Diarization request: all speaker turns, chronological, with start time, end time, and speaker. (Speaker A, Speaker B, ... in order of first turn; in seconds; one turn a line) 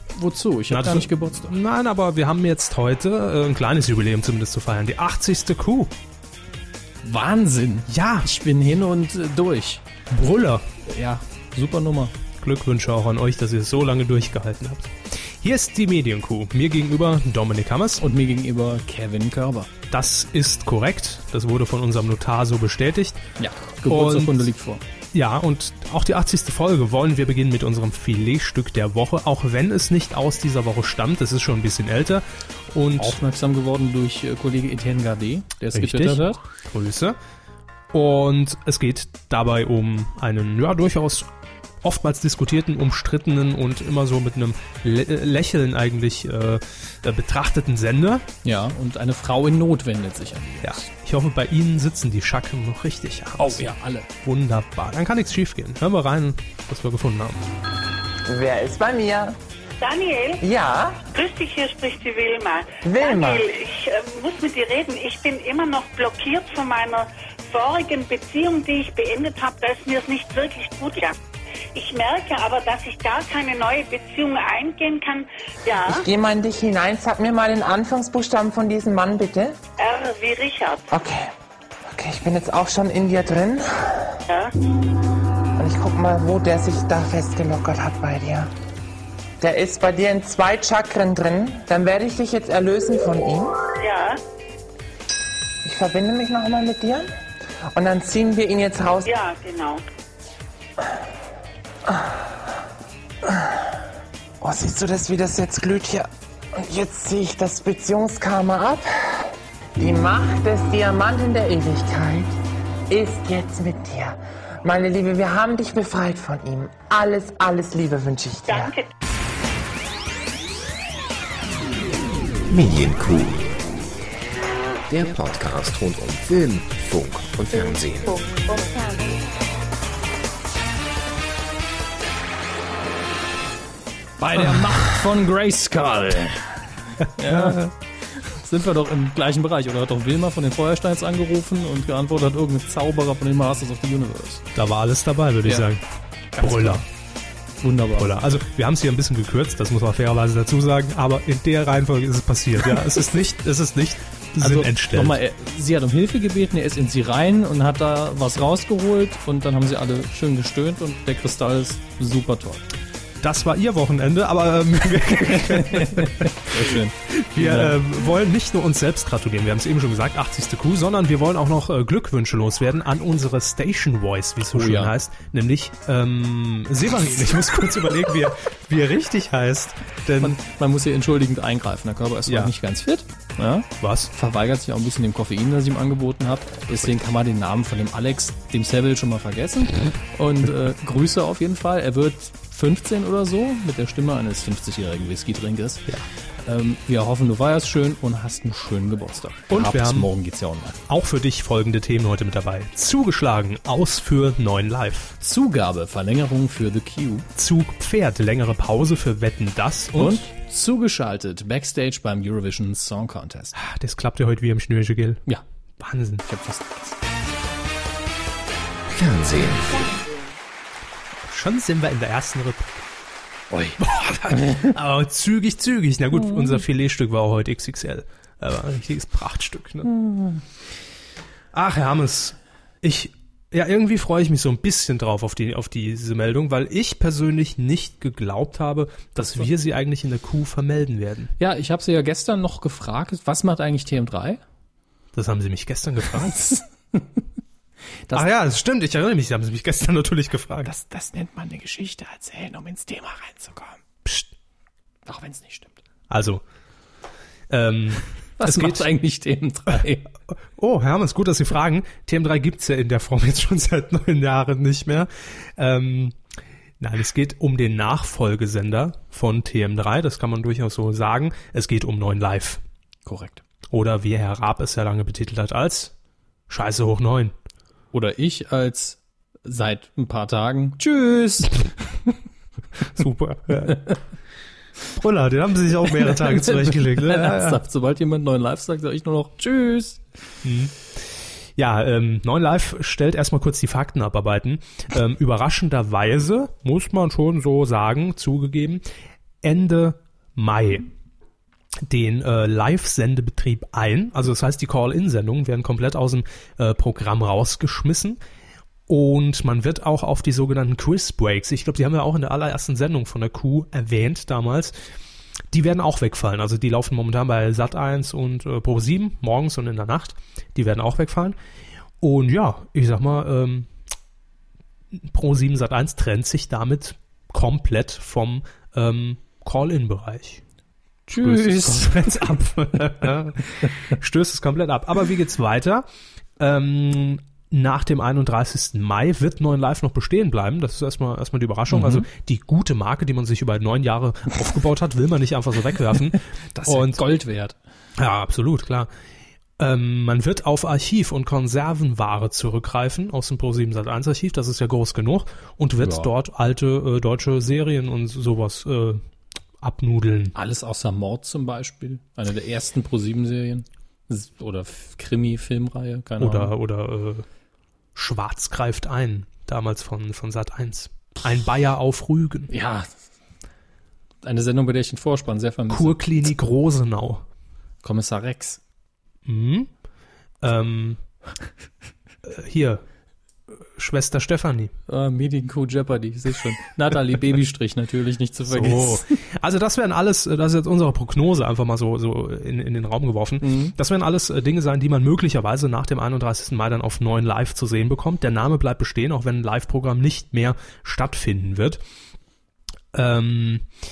Speaker A: 0.1-1.5
Speaker B: 0.7-5.9
Speaker A: 7.0-9.8
Speaker B: 7.9-8.3
Speaker B: 10.1-10.7
Speaker A: 10.8-12.1
Speaker B: 12.4-18.0
Speaker A: 18.0-19.7
Speaker B: 19.9-23.2
Speaker A: 23.4-24.8
Speaker B: 23.9-24.5
Speaker B: 25.1-33.2
Speaker A: 33.0-36.4
Speaker B: 35.7-37.2
Speaker B: 37.9-41.3
Speaker B: 41.8-48.2
Speaker A: 48.4-50.8
Speaker B: 50.6-53.7
Speaker A: 53.4-54.1
Speaker B: 54.2-57.4
Speaker C: 58.2-59.4
Speaker D: 59.8-60.4
Speaker C: 60.4-61.0
Speaker D: 61.1-71.2
Speaker C: 62.8-63.5
Speaker D: 71.7-76.0
Speaker C: 75.8-79.6
Speaker D: 79.8-80.9
Speaker C: 80.9-81.3
Speaker C: 81.9-84.2
Speaker D: 84.3-84.5
Speaker C: 85.6-88.5
Speaker C: 89.4-93.5
Speaker D: 93.8-94.2
Speaker C: 95.6-97.1
Speaker C: 97.7-99.1
Speaker D: 99.0-99.8
Speaker C: 101.9-102.5
Speaker C: 103.2-103.8
Speaker C: 104.4-112.3
Speaker C: 112.9-118.7
Speaker D: 118.5-118.9
Speaker E: 122.5-123.6
Speaker E: 124.9-128.3
Speaker A: 134.2-136.6
Speaker B: 137.0-137.7
Speaker A: 137.2-144.4
Speaker B: 144.5-145.8
Speaker A: 146.3-146.9
Speaker B: 146.4-146.8
Speaker A: 147.6-148.2
Speaker B: 147.9-155.2
Speaker A: 154.3-162.6
Speaker B: 163.2-180.3
Speaker A: 165.3-167.8
Speaker A: 174.5-174.9
Speaker A: 180.2-195.8
Speaker B: 182.3-182.5
Speaker B: 183.8-184.1
Speaker A: 196.4-200.8
Speaker B: 199.5-200.1
Speaker B: 200.9-205.1
Speaker A: 205.2-207.3
Speaker B: 207.4-210.3
Speaker A: 209.9-213.5
Speaker B: 213.6-215.2
Speaker B: 215.8-216.2
Speaker A: 216.2-217.0
Speaker E: 218.9-219.9
Speaker B: 221.3-222.8
Speaker E: 223.5-223.8
Speaker B: 223.8-229.9
Speaker B: 231.5-241.3
Speaker A: 239.2-239.5
Speaker A: 241.4-244.4
Speaker B: 245.2-246.3
Speaker A: 246.1-247.2
Speaker B: 248.1-250.7
Speaker A: 250.6-253.8
Speaker A: 255.1-255.8
Speaker B: 256.1-256.4
Speaker B: 257.5-258.9
Speaker A: 258.4-260.0
Speaker B: 260.6-266.1
Speaker B: 266.8-272.6
Speaker A: 273.1-273.4
Speaker B: 273.7-275.9
Speaker B: 276.5-277.3
Speaker A: 277.9-282.1
Speaker B: 282.9-283.8
Speaker B: 284.9-287.6
Speaker A: 285.9-290.0
Speaker B: 290.4-290.7
Speaker B: 291.6-298.8
Speaker B: 299.4-300.9
Speaker B: 301.9-308.2
Speaker B: 308.9-314.7
Speaker B: 315.5-321.4
Speaker B: 322.0-323.7
Speaker B: 325.0-330.4
Speaker A: 331.1-332.4
Speaker B: 331.2-335.8
Speaker B: 336.4-347.0
Speaker A: 341.7-342.1
Speaker A: 346.6-347.6
Speaker B: 348.0-348.9
Speaker B: 349.6-359.0
Speaker A: 355.8-356.1
Speaker B: 359.6-360.3
Speaker A: 360.4-366.5
Speaker B: 366.2-367.2
Speaker B: 367.9-372.5
Speaker A: 372.5-372.9
Speaker A: 374.2-376.0
Speaker B: 375.7-377.2
Speaker A: 377.8-378.6
Speaker B: 379.2-379.7
Speaker B: 380.4-381.0
Speaker B: 382.2-382.8
Speaker B: 383.8-384.7
Speaker A: 384.9-389.1
Speaker B: 388.5-401.8
Speaker A: 393.4-393.7
Speaker B: 402.9-403.6